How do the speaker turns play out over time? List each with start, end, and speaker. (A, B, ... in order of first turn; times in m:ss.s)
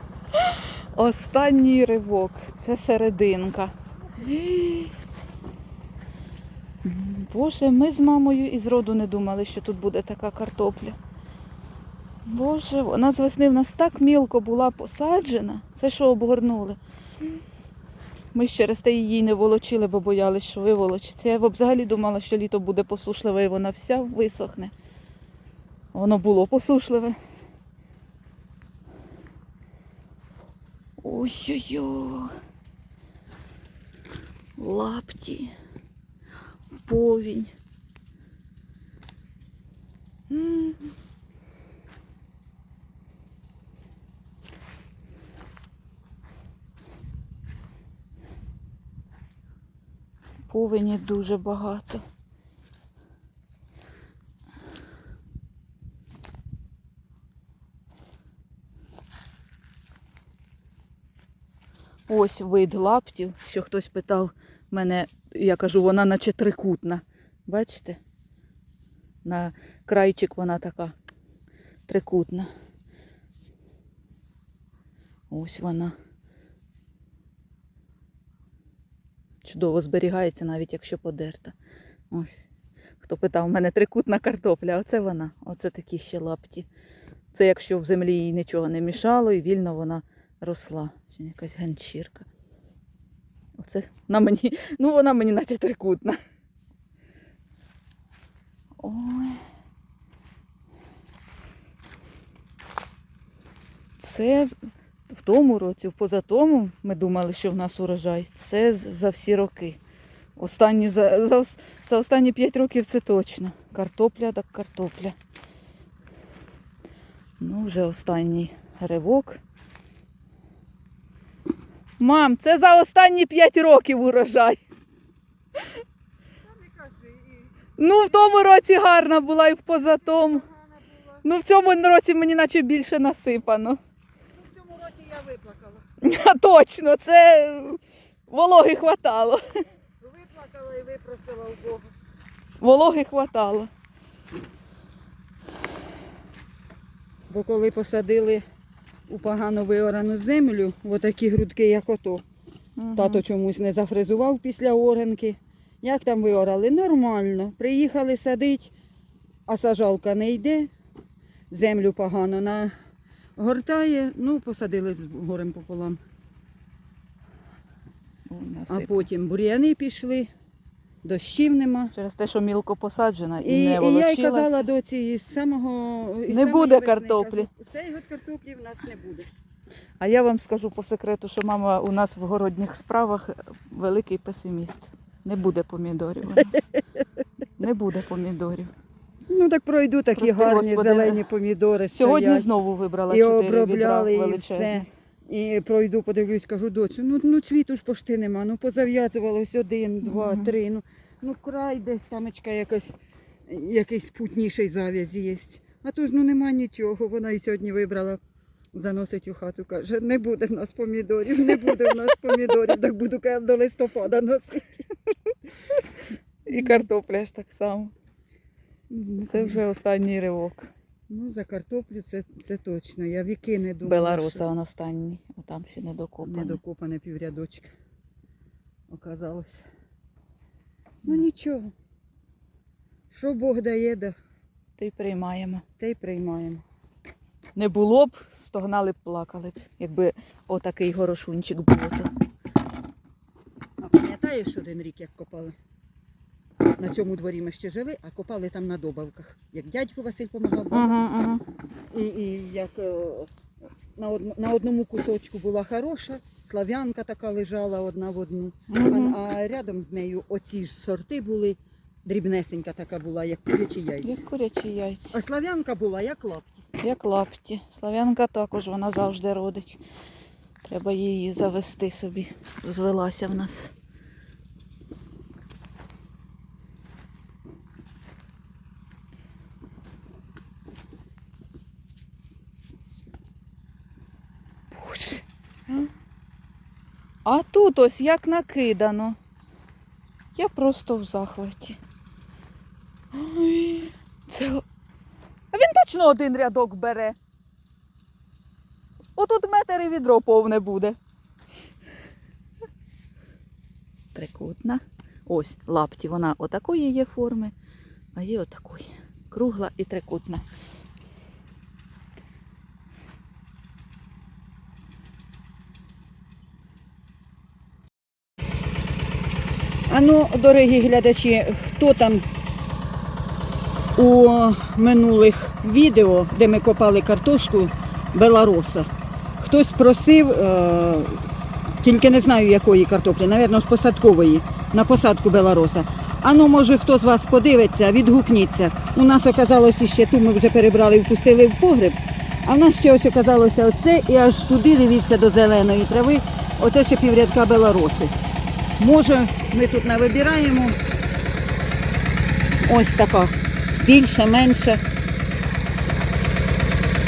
0:00.3-0:04.9 A
0:06.8-0:11.0 A
0:12.2-0:16.8 A
0:18.3-0:24.7 A
0:25.9-0:27.2 A
0:31.0-0:32.3 A
0:34.6-0:35.5 A
0:36.8-0:37.5 A
0:40.3-0:40.9 A
0:50.5-0:52.0 A
1:02.1-1:08.0 A
1:09.2-1:10.9 A
1:11.9-1:12.5 A
1:15.3-1:15.9 A
1:19.4-1:21.5 A
1:22.1-1:22.5 A
1:23.0-1:26.7 A
1:27.3-1:32.3 A
1:33.6-1:36.2 A
1:38.8-1:39.4 A
1:44.0-1:44.6 A
1:45.1-1:49.8 A
1:50.4-1:55.1 A
1:57.4-1:59.4 A
2:02.0-2:04.6 A
2:06.5-2:08.4 B
2:07.8-2:10.4 A
2:10.0-2:11.2 B
2:11.2-2:13.8 A
2:14.4-2:15.8 B
2:16.0-2:17.8 A
2:18.3-2:19.4 A
2:20.0-2:21.9 B
2:22.6-2:23.7 A
2:27.3-2:28.4 B
2:29.1-2:32.2 B
2:32.8-2:33.2 A
2:32.9-2:38.7 B
2:39.5-2:40.7 B
2:41.5-2:42.7 B
2:43.4-2:46.0 B
2:48.3-2:49.0 A
2:48.7-2:50.3 B
2:51.0-2:51.9 B
2:51.9-2:54.6 A
2:53.4-2:59.3 B
2:56.3-2:57.5 A
3:00.0-3:06.7 A
3:07.6-3:08.7 A
3:09.3-3:12.5 B
3:10.2-3:11.2 A
3:11.9-3:14.9 A
3:13.1-3:28.2 B
3:20.0-3:20.5 A
3:28.7-3:34.8 B
3:36.4-3:37.9 A
3:38.9-3:39.6 B
3:39.3-3:40.7 A
3:41.1-3:44.5 B
3:43.8-3:46.6 A
3:46.2-3:47.7 B
3:48.9-3:49.7 B
3:51.0-3:51.7 B
3:53.1-3:54.1 B
3:54.8-3:55.6 A
3:55.8-3:56.6 B
3:57.6-4:02.1 A
4:03.8-4:05.5 B
4:06.8-4:11.0 B
4:10.7-4:11.4 A
4:11.9-4:13.3 B
4:14.0-4:24.2 B
4:18.7-4:19.2 A
4:24.0-4:25.2 A
4:25.1-4:26.6 B
4:26.8-4:29.8 A
4:30.6-4:33.7 A
4:44.7-4:45.9 A
4:47.2-4:49.2 A
4:50.4-4:51.8 A
4:53.1-4:54.6 A
4:55.5-4:57.2 A
4:59.2-5:01.0 A
5:04.1-5:07.5 A
5:08.1-5:10.4 A
5:19.9-5:22.2 B
5:24.0-5:28.9 B
5:29.4-5:31.2 B
5:31.8-5:48.1 B
5:48.8-5:50.8 B
5:52.6-5:54.8 B